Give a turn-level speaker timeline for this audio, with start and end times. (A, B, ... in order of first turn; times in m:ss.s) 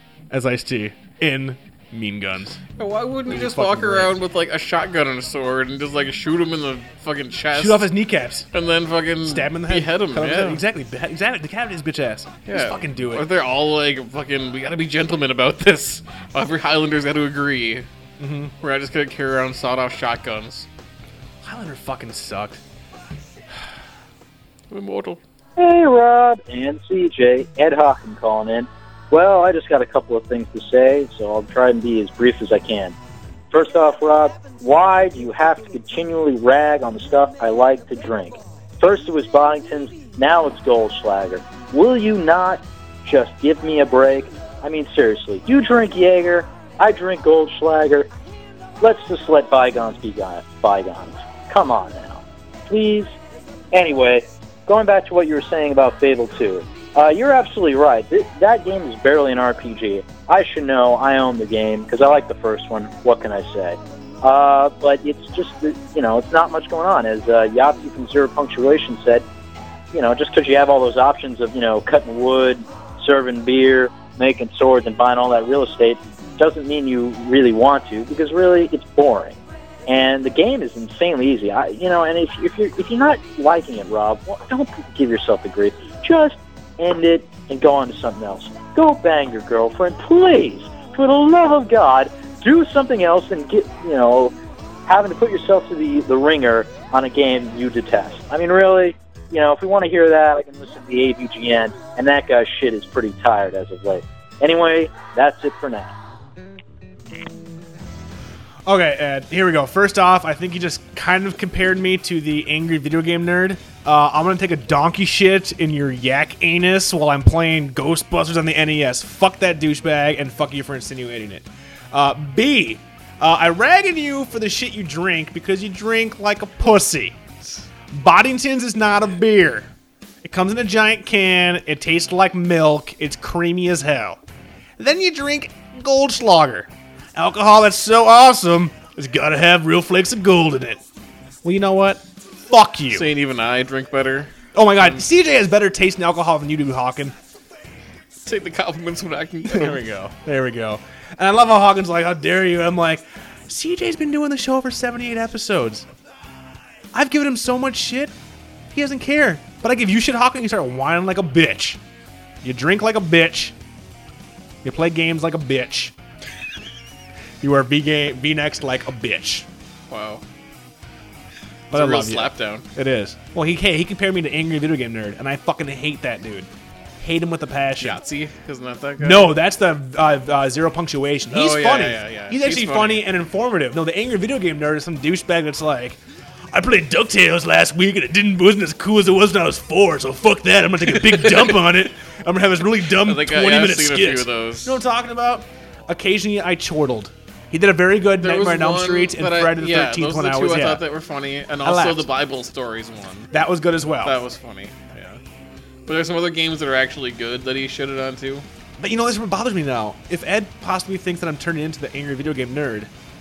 0:00.3-0:02.6 A
0:02.8-0:07.9 B
0:03.3-0:04.2 A
0:07.5-0:08.5 A
0:08.5-0:10.6 B
0:09.2-0:13.3 A
0:12.5-0:17.9 B
0:18.2-0:18.5 A
0:18.6-0:20.7 B
0:21.4-0:22.6 A
0:24.7-0:25.2 B
0:25.6-0:33.0 C
0:33.5-0:48.1 C
0:48.8-0:53.1 C
0:53.7-1:09.2 C
1:09.9-1:34.4 C
1:34.9-1:45.9 C
1:48.7-2:07.4 A
2:07.9-2:09.7 A
2:10.2-2:14.2 A
2:14.8-2:20.8 A
2:21.4-2:23.1 A
2:22.9-2:24.3 B
2:24.5-2:27.2 A
2:28.3-2:30.1 B
2:29.5-2:35.9 A
2:36.9-2:38.1 A
2:38.7-2:41.8 A
2:42.4-2:43.6 A
2:44.6-2:45.9 A
2:47.4-2:49.5 A
2:49.9-2:50.2 B
2:51.7-2:58.0 A
2:51.7-2:52.6 B
2:57.8-2:59.4 B
2:59.0-3:06.0 A
3:01.3-3:03.1 B
3:06.5-3:20.8 A
3:11.0-3:11.6 B
3:13.0-3:14.8 B
3:18.2-3:23.3 B
3:21.6-3:22.1 A
3:23.3-3:24.2 A
3:24.0-3:25.2 B
3:25.9-3:28.4 B
3:28.8-3:32.9 A